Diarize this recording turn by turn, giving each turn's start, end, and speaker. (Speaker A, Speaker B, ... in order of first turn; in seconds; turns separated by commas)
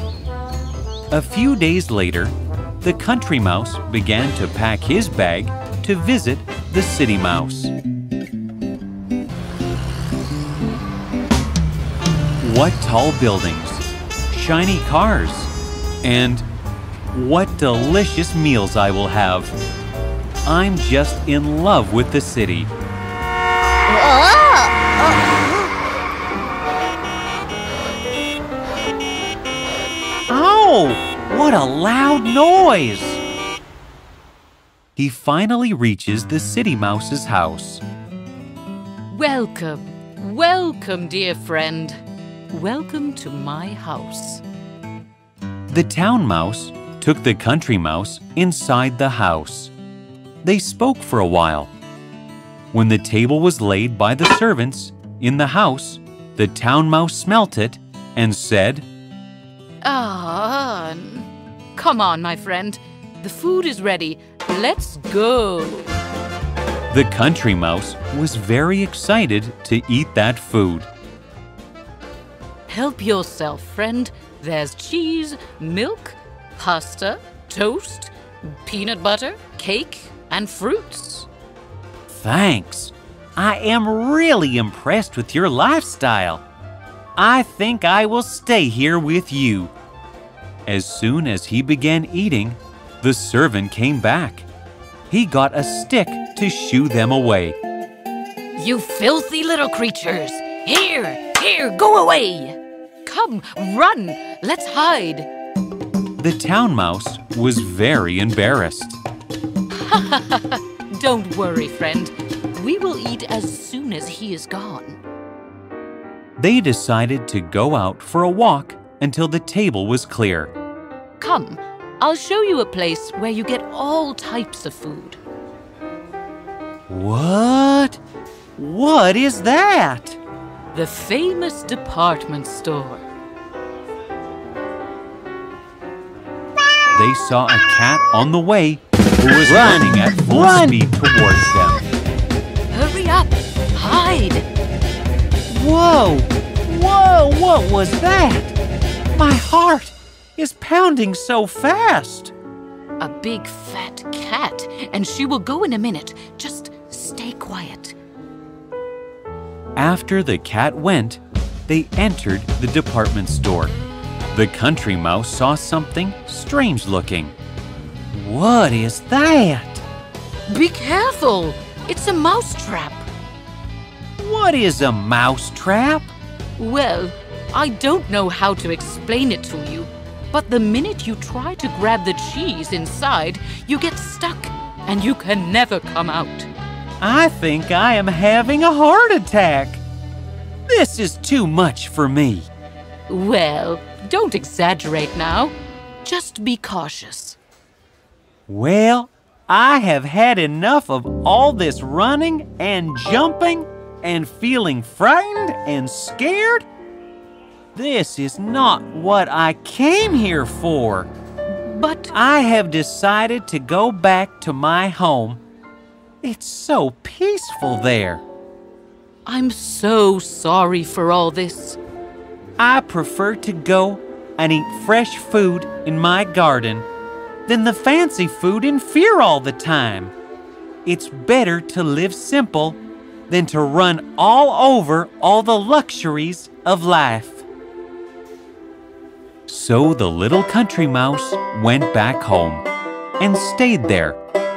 Speaker A: 1.1-7.7, Speaker A: 12.4-15.5, Speaker A: 16.0-16.4, Speaker A: 17.1-19.5, Speaker A: 20.4-22.7, Speaker B: 24.1-24.6, Speaker A: 30.3-33.2, Speaker A: 35.0-37.8, Speaker B: 39.1-44.4, Speaker A: 45.7-49.7, Speaker A: 50.4-51.7, Speaker A: 52.7-58.9, Speaker B: 59.8-66.0, Speaker A: 66.9-70.9, Speaker B: 72.7-81.3, Speaker A: 82.1-86.4, Speaker A: 87.2-89.7, Speaker A: 90.7-94.5, Speaker A: 95.1-97.6, Speaker B: 98.6-105.3, Speaker A: 106.2-109.0, Speaker B: 109.7-115.0, Speaker A: 116.4-120.5, Speaker B: 121.2-125.2, Speaker A: 126.9-128.0, Speaker A: 128.6-130.2, Speaker B: 130.7-133.0, Speaker A: 136.9-141.8, Speaker B: 142.7-144.5, Speaker A: 145.5-148.6, Speaker A: 149.1-152.3, Speaker B: 153.0-157.9, Speaker A: 159.8-163.7, Speaker A: 164.3-167.3, Speaker A: 168.1-169.8, Speaker B: 170.5-173.1, Speaker A: 174.2-176.1, Speaker B: 176.6-186.5, Speaker A: 187.0-189.8, Speaker A: 190.7-192.5, Speaker B: 193.1-197.4, Speaker A: 198.5-206.7, Speaker A: 207.7-211.1, Speaker B: 211.5-212.1, Speaker A: 212.1-215.4, Speaker A: 216.2-218.2, Speaker B: 219.2-221.8, Speaker A: 222.6-226.9, Speaker A: 227.4-230.1, Speaker A: 230.8-237.4, Speaker A: 239.5-242.7, Speaker A: 243.2-244.2